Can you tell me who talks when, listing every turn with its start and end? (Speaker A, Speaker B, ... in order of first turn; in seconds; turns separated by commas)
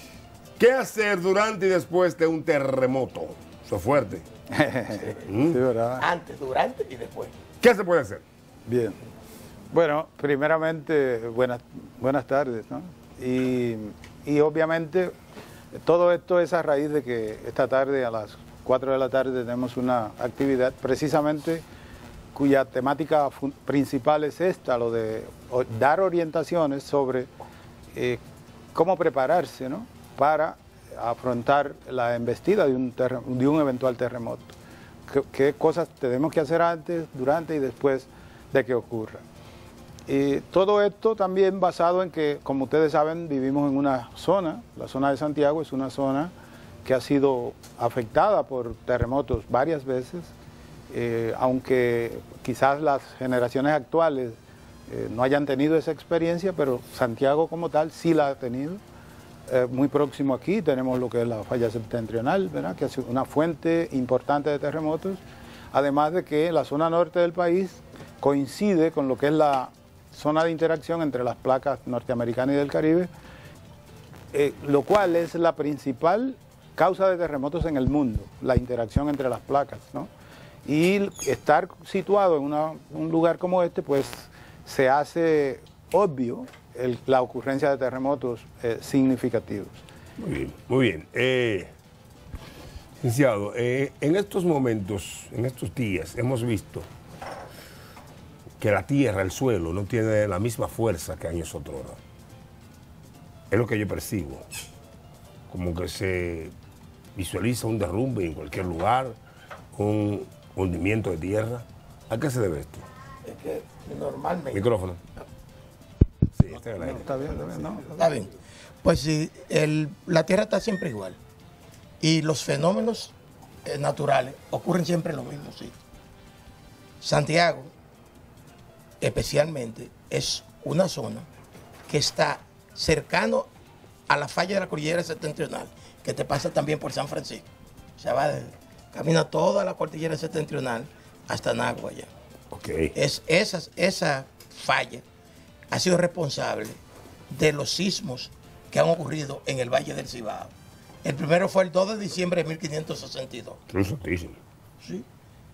Speaker A: 0.6-4.2, Speaker B: 4.5-6.0, Speaker C: 4.9-5.2, Speaker A: 5.3-5.6, Speaker C: 6.0-7.3, Speaker A: 7.6-8.2, Speaker B: 8.7-9.0, Speaker B: 9.7-15.1, Speaker B: 15.7-21.6, Speaker B: 22.3-27.3, Speaker B: 27.9-28.2, Speaker B: 28.7-34.5, Speaker B: 35.1-39.2, Speaker B: 40.1-46.3, Speaker B: 46.8-50.3, Speaker B: 50.9-58.8, Speaker B: 59.5-65.2, Speaker B: 65.7-73.1, Speaker B: 74.3-80.1, Speaker B: 80.6-89.8, Speaker A: 90.2-91.7, Speaker A: 93.0-96.9, Speaker A: 98.6-102.0, Speaker A: 103.5-104.4, Speaker A: 105.5-106.5, Speaker A: 107.1-109.2, Speaker A: 109.7-112.8, Speaker C: 113.2-114.7, Speaker A: 114.5-115.0, Speaker A: 116.4-117.7, Speaker B: 116.5-118.0, Speaker C: 118.0-118.3, Speaker C: 118.8-121.2, Speaker C: 122.0-125.8, Speaker C: 127.0-127.7, Speaker C: 129.0-131.2, Speaker C: 131.9-133.5, Speaker C: 134.1-137.4, Speaker C: 138.0-142.1, Speaker A: 142.5-142.9, Speaker C: 142.9-145.0, Speaker C: 145.7-146.8, Speaker C: 147.3-150.5, Speaker C: 151.0-153.6, Speaker A: 153.7-154.4